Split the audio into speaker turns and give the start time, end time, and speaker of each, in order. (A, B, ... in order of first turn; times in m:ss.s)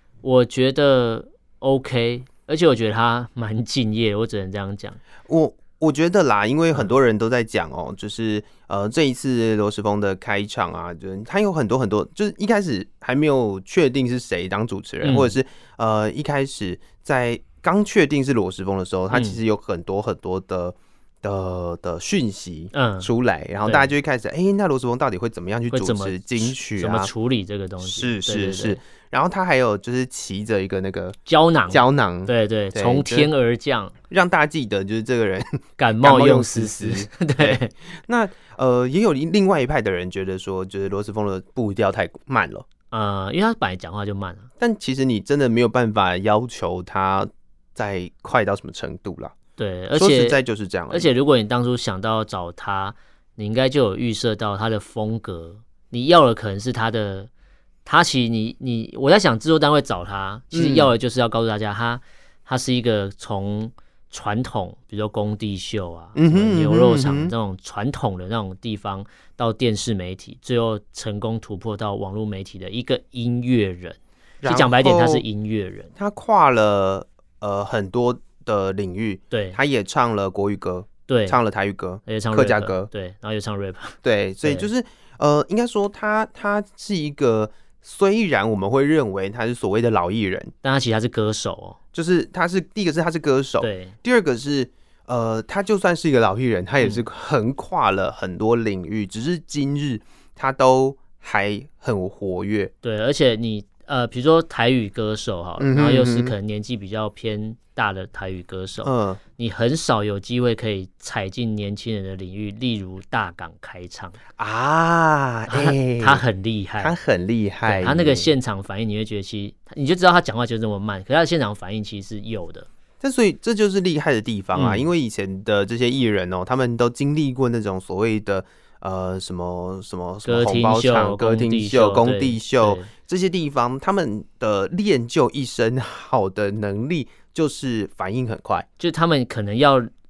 0:00.2-0:05.0 A
0:05.3-0:27.1 B
0:15.0-0:15.3 A
0:19.1-0:19.4 A
0:22.7-0:23.1 A
0:23.6-0:23.9 A
0:25.7-0:28.8 A
0:27.8-0:31.2 B
0:31.2-0:33.9 A
0:31.7-0:33.3 B
0:34.1-0:42.6 B
0:35.8-0:37.7 A
0:42.9-0:44.5 A
0:44.6-0:49.3 B
0:49.6-0:50.4 A
0:49.9-0:51.1 B
0:50.9-0:57.3 A
0:57.8-1:15.9 A
1:00.5-1:00.9 B
1:06.2-1:07.3 B
1:14.4-1:15.2 B
1:16.0-1:22.9 B
1:19.3-1:19.6 A
1:21.1-1:21.4 A
1:22.0-1:24.7 A
1:24.0-1:30.5 B
1:30.6-1:31.8 A
1:31.9-1:42.7 B
1:33.6-1:33.9 A
1:42.8-1:54.2 A
1:45.6-1:46.3 B
1:48.8-1:49.2 B
1:54.4-1:56.2 B
1:55.5-1:56.9 A
1:56.8-1:58.3 B
1:57.6-2:02.7 A
2:03.0-2:18.6 B
2:04.5-2:04.9 A
2:10.2-2:12.9 A
2:18.8-2:19.9 A